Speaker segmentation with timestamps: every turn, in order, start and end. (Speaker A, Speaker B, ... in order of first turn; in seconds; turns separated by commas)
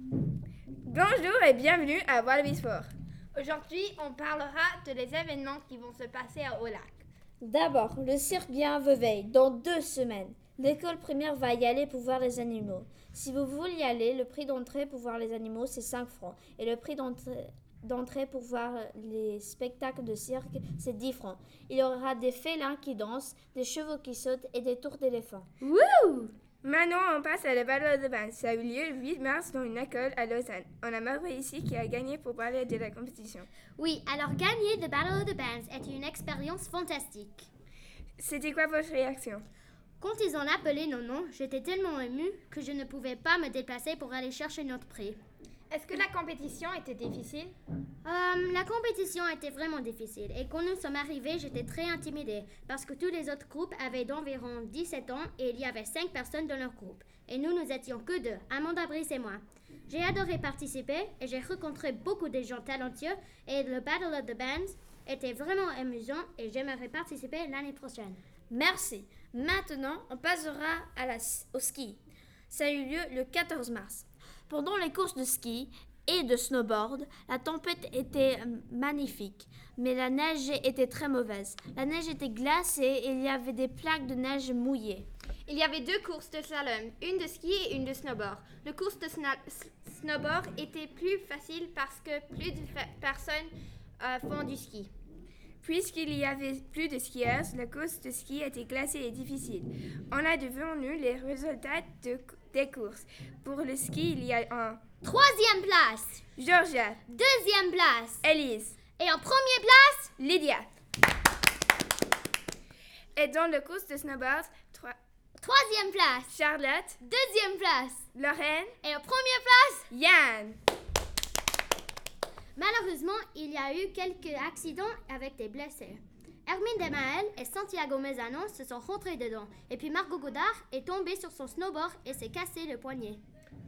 Speaker A: 0.8-2.9, Speaker B: 3.3-6.9, Speaker C: 7.4-25.5, Speaker B: 25.6-26.3, Speaker A: 26.6-33.5, Speaker D: 33.8-37.5, Speaker A: 38.2-39.5, Speaker D: 40.0-45.2, Speaker B: 45.7-47.5, Speaker D: 48.0-68.2, Speaker C: 68.5-72.0, Speaker C: 72.5-85.1, Speaker B: 85.5-94.9, Speaker A: 95.6-104.8, Speaker D: 105.0-106.2, Speaker A: 106.4-107.0, Speaker D: 107.1-108.2, Speaker A: 108.2-108.7, Speaker D: 109.0-110.1, Speaker A: 110.2-110.7, Speaker A: 113.2-115.0, Speaker D: 115.4-116.3, Speaker A: 116.3-117.0, Speaker D: 117.0-118.0, Speaker A: 118.1-118.7, Speaker D: 118.8-119.9, Speaker A: 119.9-120.6, Speaker D: 122.5-133.2